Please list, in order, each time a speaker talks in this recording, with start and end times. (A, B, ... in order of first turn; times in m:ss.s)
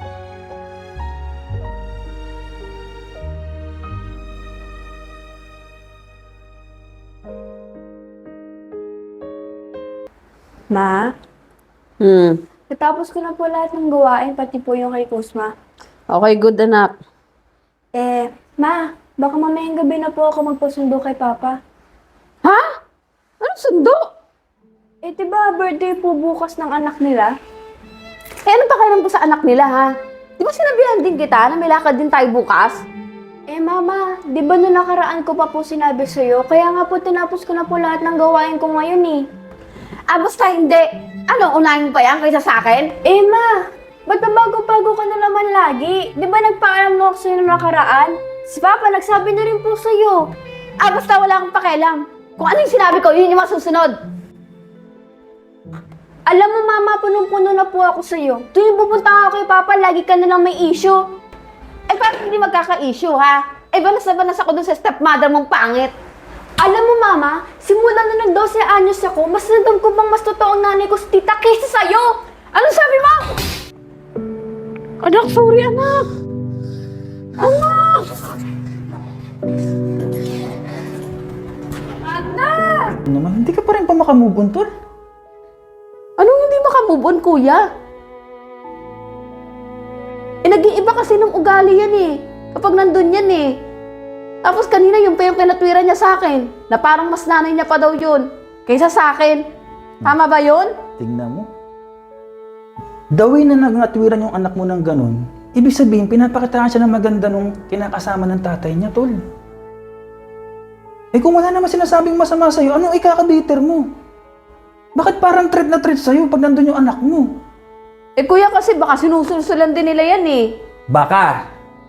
0:10.7-0:11.1 A
0:12.0-0:12.4 B
0:12.7-0:15.5 A
0:16.1-0:17.0 B
0:17.9-0:21.6 A
0:22.4-0:22.7 B
0:23.4-0:24.1 B
0:25.0-0:27.3 A
0:28.4-0:32.8 B
0:33.5-0:39.2 A
0:40.1-0:43.0 B
0:43.0-0:43.5 A
0:44.1-0:50.3 A
0:50.8-0:54.0 B
0:56.3-0:58.6 A
0:58.6-1:01.0 B
0:59.8-1:00.6 A
1:01.9-1:05.9 B
1:06.6-1:13.3 A
1:15.0-1:16.1 B
1:17.4-1:18.1 B
1:22.0-1:23.0 B
1:23.1-1:24.7 C
1:26.2-1:27.6 B
1:30.4-1:33.6 B
1:34.4-1:39.4 B
1:40.0-1:40.7 B
1:41.0-1:41.5 C
1:43.1-1:49.2 C
1:51.1-1:53.8 C
1:55.0-1:57.3 C
1:58.2-2:00.5 B
2:00.9-2:01.4 C